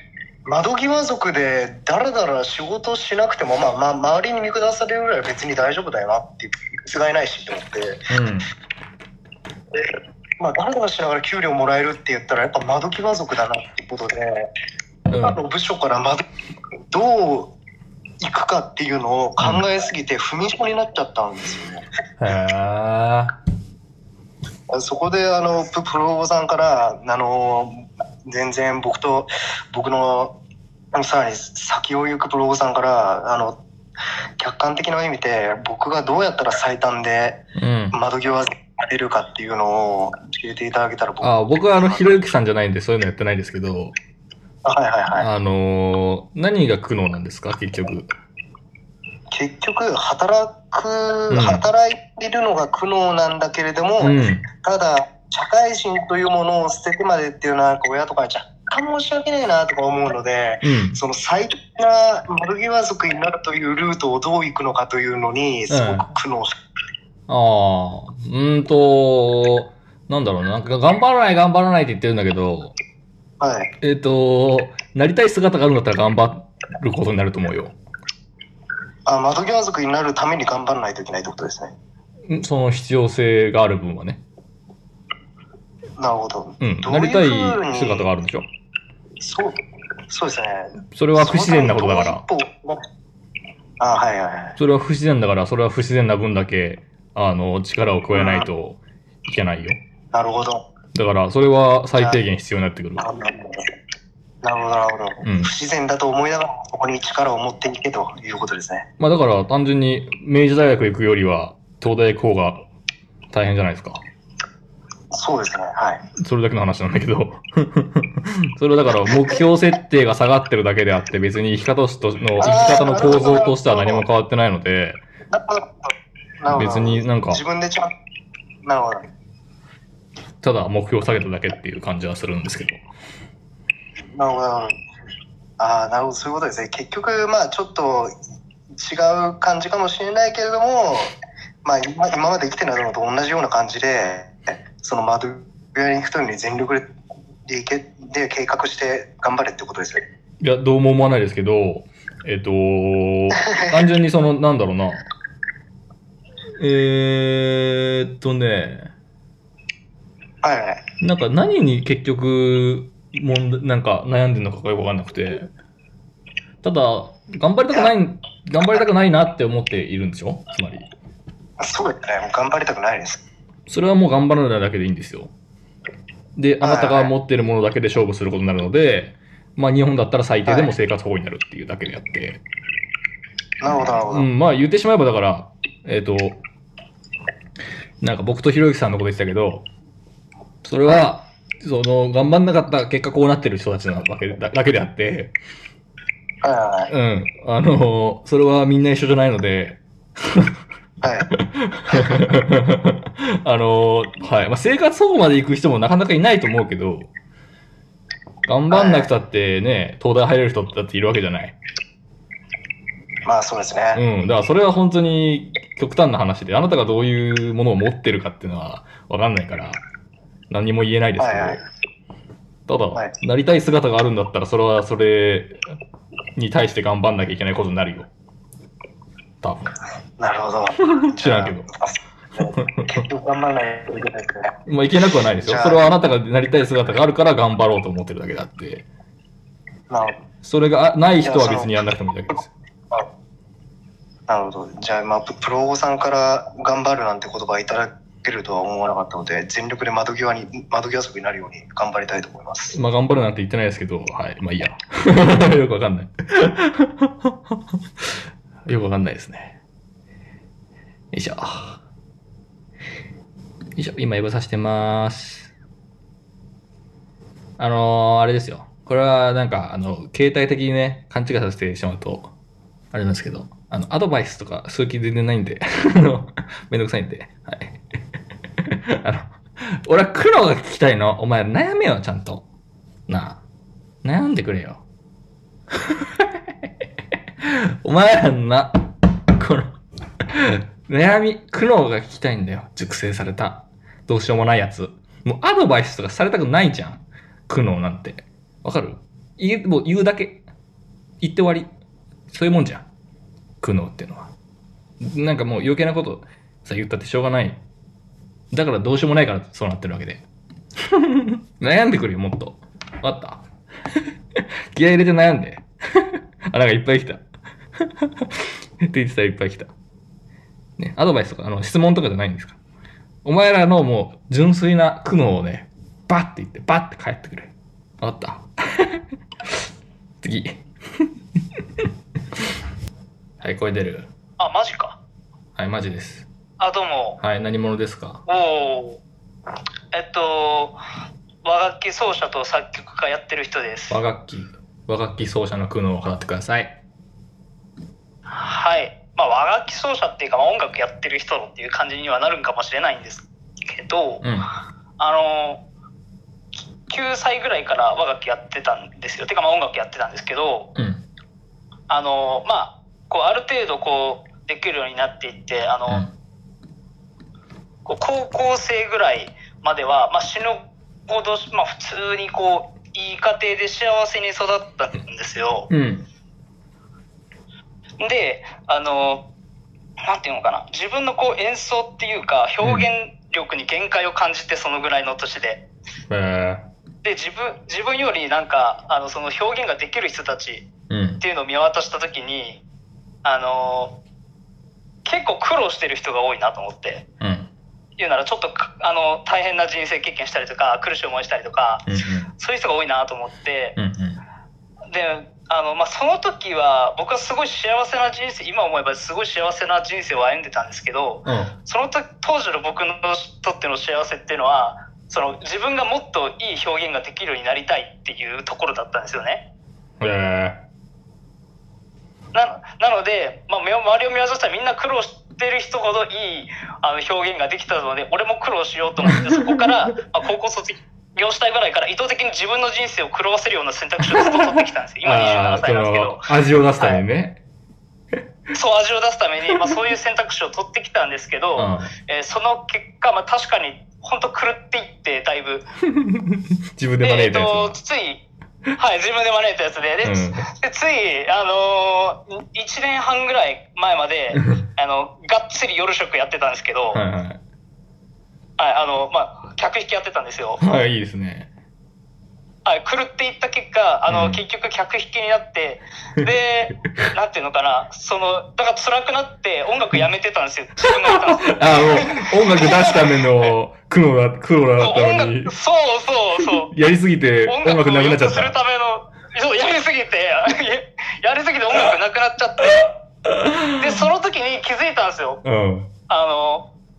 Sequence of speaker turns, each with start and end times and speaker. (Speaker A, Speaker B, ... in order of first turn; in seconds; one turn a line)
Speaker A: 0.5-8.0
Speaker B: 8.1-8.5
Speaker A: 9.7-14.5
Speaker B: 15.1-15.4
Speaker A: 15.2-16.2
Speaker A: 16.9-17.5
Speaker A: 18.2-21.8
Speaker B: 19.4-19.6
Speaker B: 22.2-23.3
Speaker A: 24.7-30.3
Speaker A: 30.9-33.6
Speaker A: 34.4-42.1
Speaker B: 37.6-37.9
Speaker B: 41.2-43.9
Speaker A: 44.6-45.3
Speaker B: 45.2-48.1
Speaker A: 49.3-66.5
Speaker B: 51.3-51.6
Speaker B: 54.0-54.5
Speaker B: 60.6-61.0
Speaker B: 65.7-66.1
Speaker B: 67.3-72.7
Speaker A: 73.4-73.7
Speaker B: 73.8-77.7
Speaker A: 79.0-81.7
Speaker B: 82.3-84.2
Speaker A: 86.0-88.0
Speaker B: 86.6-88.5
Speaker A: 89.2-89.6
Speaker A: 90.1-92.8
Speaker B: 90.9-92.2
Speaker A: 93.8-94.6
Speaker B: 94.6-99.8
Speaker A: 98.1-98.5
Speaker A: 100.1-100.6
Speaker B: 100.9-103.1
Speaker A: 101.9-102.2
Speaker A: 103.0-103.6
Speaker A: 104.4-108.8
Speaker B: 105.2-105.5
Speaker B: 109.0-112.6
Speaker B: 113.3-114.0
Speaker A: 115.1-116.0
Speaker B: 116.2-125.0
Speaker A: 122.4-124.0
Speaker A: 125.3-127.9
Speaker B: 126.5-127.4
Speaker A: 128.6-129.1
Speaker B: 130.4-132.8
Speaker A: 134.1-134.7
Speaker A: 135.6-138.1
Speaker A: 138.7-141.1
Speaker A: 141.6-146.9
Speaker A: 147.4-150.0
Speaker B: 150.4-155.1
Speaker A: 153.4-153.7
Speaker B: 156.6-158.9
Speaker A: 160.4-160.8
Speaker B: 161.0-165.5
Speaker B: 166.6-170.9
Speaker A: 171.6-173.2
Speaker B: 173.7-175.3
Speaker B: 176.3-182.4
Speaker A: 176.6-177.1
Speaker A: 180.5-180.7
Speaker A: 183.6-184.3
Speaker B: 183.7-186.4
Speaker B: 188.0-189.7
Speaker B: 190.6-195.3
Speaker A: 196.4-196.9
Speaker B: 196.9-200.5
Speaker A: 201.0-201.3
Speaker B: 201.4-207.1
Speaker A: 201.9-202.2
Speaker B: 208.4-211.6
Speaker A: 208.7-209.1
Speaker A: 213.2-214.0
Speaker B: 213.9-219.8
Speaker B: 220.5-221.6
Speaker A: 221.2-221.6
Speaker B: 222.7-225.6
Speaker B: 226.3-228.1
Speaker B: 229.4-229.7
Speaker A: 230.2-234.5
Speaker B: 231.1-231.7
Speaker B: 232.5-233.0
Speaker B: 234.7-238.8
Speaker A: 235.4-235.8
Speaker A: 239.9-240.2
Speaker B: 240.4-242.5
Speaker A: 241.2-241.7
Speaker A: 244.3-252.8
Speaker B: 252.7-257.4
Speaker B: 258.6-259.6
Speaker B: 261.1-261.8
Speaker B: 263.8-265.5
Speaker B: 267.6-272.3
Speaker B: 272.9-277.8
Speaker B: 279.0-282.4
Speaker B: 283.1-283.4
Speaker B: 284.0-284.8
Speaker B: 287.4-289.7
Speaker B: 290.3-300.4
Speaker B: 301.2-301.7
Speaker B: 302.3-302.9
Speaker B: 303.6-304.3
Speaker B: 305.0-307.6
Speaker B: 308.5-310.2
Speaker B: 310.9-313.4
Speaker B: 314.7-317.2
Speaker B: 318.8-319.7
Speaker B: 320.8-322.6
Speaker B: 323.2-329.0
Speaker B: 330.2-330.6
Speaker B: 333.4-334.1
Speaker C: 334.4-335.0
Speaker B: 335.6-336.2
Speaker C: 336.6-337.2
Speaker B: 337.2-338.2
Speaker C: 338.3-339.0
Speaker C: 339.9-340.8
Speaker C: 341.4-344.0
Speaker B: 343.9-346.8
Speaker C: 348.3-354.2
Speaker B: 354.2-354.5
Speaker C: 355.0-355.6
Speaker C: 356.7-360.7
Speaker B: 360.7-361.0
Speaker C: 361.9-366.1
Speaker C: 367.9-375.7
Speaker B: 375.7-376.1
Speaker C: 378.0-379.2
Speaker C: 380.0-385.6
Speaker B: 382.6-382.9
Speaker B: 386.1-386.6
Speaker C: 387.0-390.7
Speaker B: 390.9-391.2
Speaker C: 391.2-392.6
Speaker C: 393.2-393.9
Speaker C: 395.0-397.0
Speaker B: 397.2-397.5
Speaker C: 398.0-401.9
Speaker B: 401.9-402.3
Speaker C: 402.4-403.8
Speaker B: 403.8-404.2
Speaker C: 404.9-419.4
Speaker B: 411.2-411.5
Speaker B: 420.0-420.6
Speaker C: 422.3-437.0
Speaker B: 429.0-429.9
Speaker B: 434.0-437.4
Speaker C: 438.5-445.6
Speaker B: 441.6-441.9
Speaker B: 445.8-447.8
Speaker C: 447.0-448.2
Speaker C: 448.8-457.0
Speaker B: 450.0-450.5
Speaker B: 454.3-454.6
Speaker B: 456.9-457.4
Speaker C: 458.6-460.6
Speaker B: 460.6-461.5
Speaker C: 462.6-473.5
Speaker B: 464.1-464.4
Speaker B: 470.8-475.5
Speaker C: 474.8-476.7
Speaker B: 476.4-478.5
Speaker C: 477.4-482.9
Speaker B: 482.6-484.0
Speaker C: 483.8-485.4
Speaker B: 485.4-485.9
Speaker C: 486.1-486.6